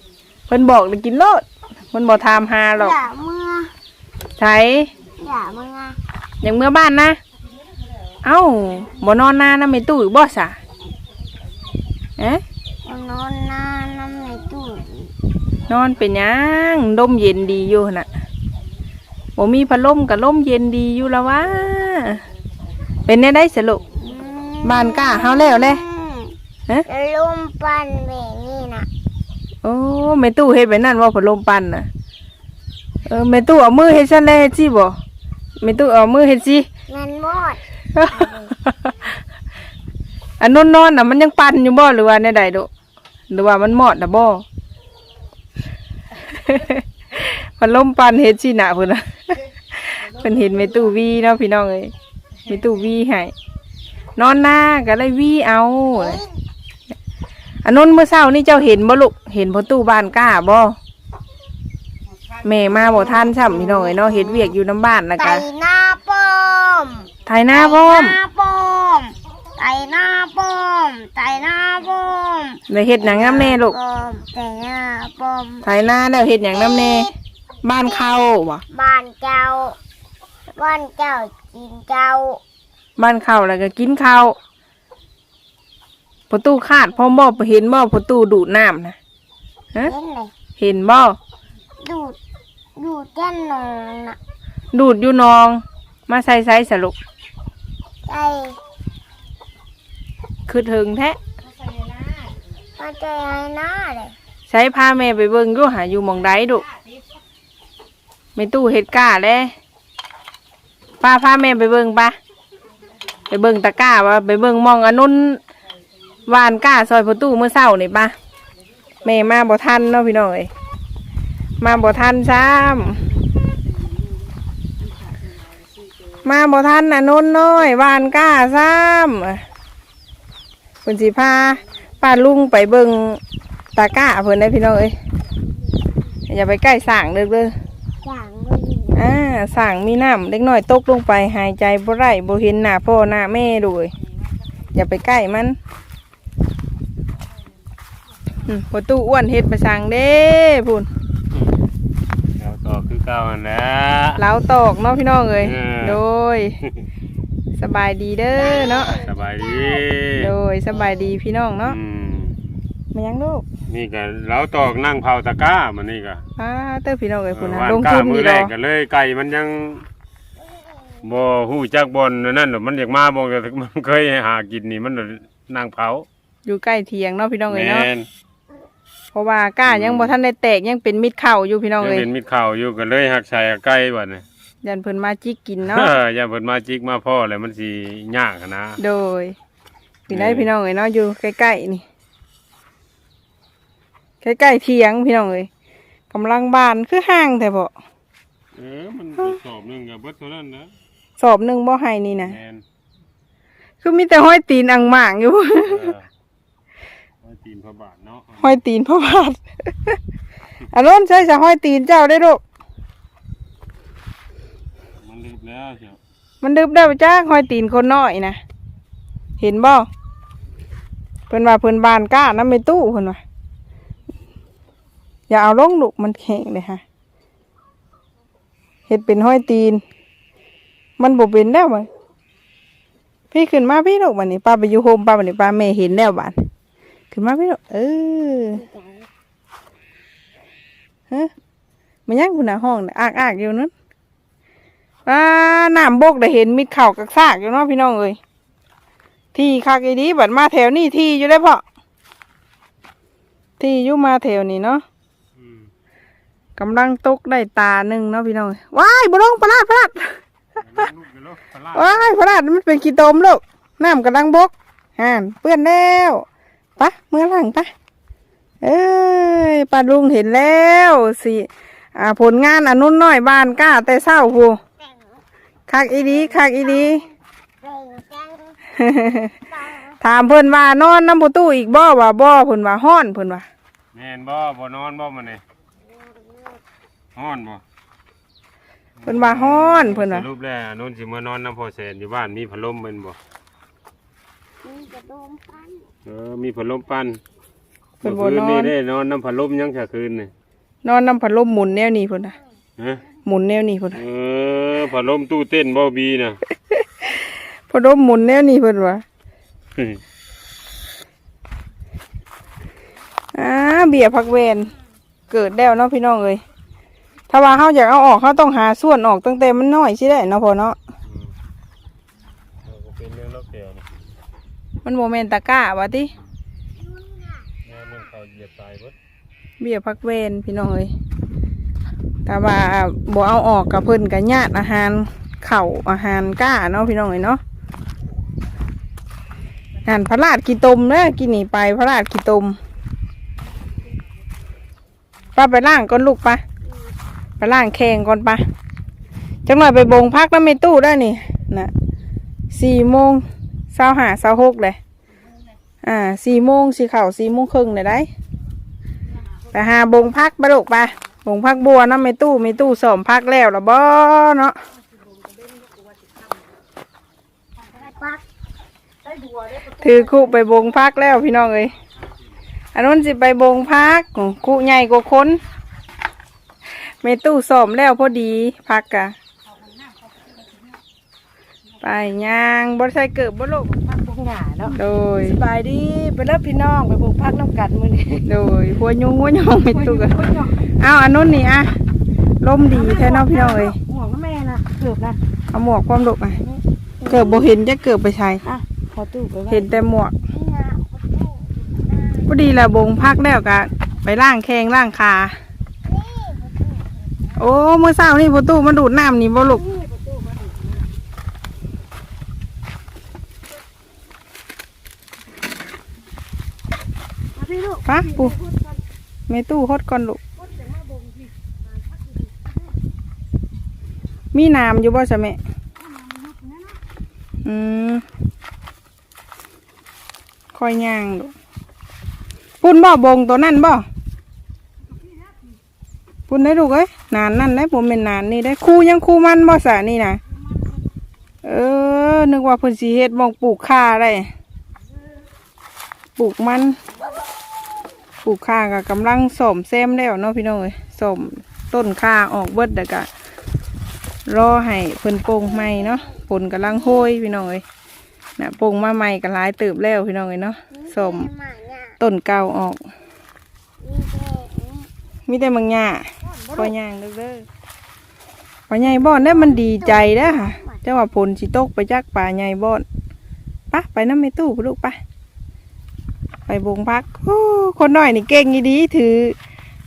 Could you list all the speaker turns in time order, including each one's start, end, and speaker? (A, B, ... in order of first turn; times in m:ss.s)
0:00.5-0:03.0 A
0:02.7-0:03.7 B
0:04.4-0:04.9 A
0:05.2-0:06.0 B
0:06.4-0:07.2 A
0:08.2-0:10.6 A
0:12.2-0:12.4 A
0:12.8-0:15.1 B
0:15.7-0:18.1 A
0:19.4-0:22.2 A
0:23.0-0:23.8 A
0:24.0-0:28.9 B
0:24.6-0:25.8 A
0:29.6-0:31.9 A
0:33.0-0:35.0 A
0:35.6-0:36.7 A
0:36.9-0:38.5 B
0:37.9-0:38.9 A
0:40.4-0:42.7 A
0:43.3-0:44.4 A
0:46.3-0:51.9 A
0:52.4-0:53.3 A
0:54.2-0:56.2 A
0:55.9-0:56.4 B
0:57.6-1:00.8 A
1:02.4-1:05.4 A
1:02.7-1:04.5 B
1:05.2-1:15.6 B
1:07.2-1:08.2 A
1:12.7-1:13.8 A
1:15.6-1:17.1 A
1:16.5-1:17.1 B
1:17.6-1:18.6 A
1:18.7-1:19.8 B
1:20.6-1:22.4 B
1:23.0-1:24.4 A
1:26.3-1:29.0 A
1:29.8-1:30.3 B
1:30.6-1:31.2 A
1:31.8-1:32.2 B
1:32.8-1:34.2 B
1:34.7-1:36.9 A
1:38.0-1:38.6 B
1:40.5-1:41.2 A
1:42.8-1:44.2 B
1:44.5-1:46.6 A
1:48.4-1:49.5 A
1:51.0-1:52.2 A
1:53.3-1:55.4 A
1:56.3-1:58.1 A
1:59.0-2:00.5 A
2:01.6-2:03.0 A
2:03.4-2:04.2 C
2:04.8-2:05.9 C
2:06.2-2:09.4 A
2:10.8-2:13.2 A
2:13.7-2:14.9 A
2:16.3-2:17.5 A
2:18.0-2:19.1 B
2:18.9-2:23.9 A
2:24.7-2:25.6 A
2:28.4-2:30.9 A
2:32.4-2:34.2 D
2:34.2-2:36.6 A
2:35.4-2:36.0 D
2:37.6-2:39.0 A
2:38.3-2:39.8 B
2:38.4-2:40.3 D
2:40.2-2:41.8 A
2:40.7-2:41.1 B
2:41.6-2:42.3 D
2:42.9-2:43.4 A
2:43.7-2:46.2 D
2:46.4-2:48.5 A
2:47.3-2:49.9 D
2:51.0-2:56.0 D
2:56.4-2:57.9 A
2:57.5-2:58.1 D
2:59.1-3:02.1 A
2:59.6-3:00.1 D
3:01.8-3:04.2 D
3:04.6-3:06.0 A
3:05.6-3:08.8 D
3:08.8-3:09.4 A
3:10.1-3:11.8 A
3:10.1-3:10.5 D
3:14.2-3:15.5 A
3:16.1-3:17.7 A
3:18.5-3:20.7 D
3:21.2-3:22.4 A
3:22.1-3:22.6 D
3:23.8-3:25.9 A
3:25.6-3:26.0 D
3:27.2-3:28.6 D
3:28.4-3:30.0 A
3:30.7-3:32.4 A
3:35.0-3:36.0 D
3:36.4-3:38.4 A
3:39.4-3:39.9 A
3:41.3-3:43.2 A
3:45.3-3:46.8 A
3:48.9-3:49.8 A
3:51.0-3:51.9 A
3:53.3-3:56.4 A
3:57.1-3:58.6 A
3:58.5-3:59.1 B
4:02.1-4:03.7 A
4:05.0-4:08.2 A
4:09.3-4:11.6 A
4:13.6-4:14.8 A
4:15.4-4:15.7 D
4:16.6-4:20.2 A
4:20.6-4:22.2 D
4:21.7-4:26.2 A
4:26.8-4:27.7 A
4:28.6-4:34.6 A
4:34.8-4:35.2 B
4:35.7-4:37.0 A
4:35.9-4:37.1 B
4:37.6-4:38.6 B
4:38.8-4:39.3 A
4:39.5-4:40.0 B
4:40.0-4:43.4 A
4:43.9-4:45.4 D
4:45.8-4:46.6 B
4:47.2-4:47.6 D
4:49.0-4:53.2 D
4:49.0-4:50.3 A
4:54.6-4:55.9 B
4:56.0-4:57.2 D
4:58.0-5:00.3 D
4:58.0-4:58.7 A
5:00.8-5:02.3 A
5:02.8-5:03.0 D
5:03.2-5:04.0 A
5:03.9-5:06.4 D
5:06.8-5:09.0 A
5:13.3-5:14.7 A
5:15.3-5:16.4 A
5:17.3-5:20.8 A
5:21.1-5:21.3 D
5:22.6-5:23.8 D
5:24.8-5:26.1 A
5:27.1-5:27.4 B
5:27.6-5:28.9 D
5:29.6-5:30.9 A
5:32.2-5:37.4 A
5:39.8-5:42.6 A
5:45.3-5:46.4 A
5:47.4-5:48.4 A
5:49.4-5:51.7 A
5:52.5-5:54.8 A
5:55.8-5:58.1 A
5:59.5-6:04.6 A
6:05.1-6:06.4 C
6:09.0-6:10.4 C
6:09.8-6:11.7 A
6:12.7-6:15.4 A
6:16.8-6:19.2 A
6:19.9-6:20.5 C
6:21.8-6:23.7 A
6:23.7-6:28.3 C
6:24.7-6:25.4 A
6:28.2-6:30.2 A
6:29.7-6:30.7 C
6:30.8-6:31.7 A
6:32.4-6:33.8 A
6:32.6-6:35.2 C
6:35.5-6:36.4 A
6:37.0-6:37.5 B
6:37.0-6:38.4 A
6:38.4-6:39.8 C
6:39.5-6:40.1 A
6:40.3-6:42.3 B
6:42.3-6:45.4 A
6:45.8-6:47.4 B
6:47.4-6:49.6 A
6:49.4-6:50.9 C
6:57.3-6:58.8 C
6:57.8-6:58.3 A
6:59.3-7:00.2 A
7:00.4-7:02.5 C
7:04.3-7:05.4 A
7:05.8-7:06.8 C
7:07.4-7:08.0 A
7:10.5-7:11.3 A
7:12.6-7:13.8 A
7:15.0-7:15.5 C
7:16.3-7:20.2 A
7:21.4-7:24.3 A
7:26.2-7:26.8 A
7:28.2-7:33.1 A
7:34.3-7:37.6 A
7:35.4-7:37.1 B
7:38.4-7:41.3 A
7:40.7-7:42.0 B
7:42.0-7:42.8 A
7:43.8-7:44.9 B
7:45.3-7:47.4 A
7:48.7-7:52.8 A
7:48.8-7:50.8 B
7:53.7-7:55.0 A
7:56.5-7:59.4 A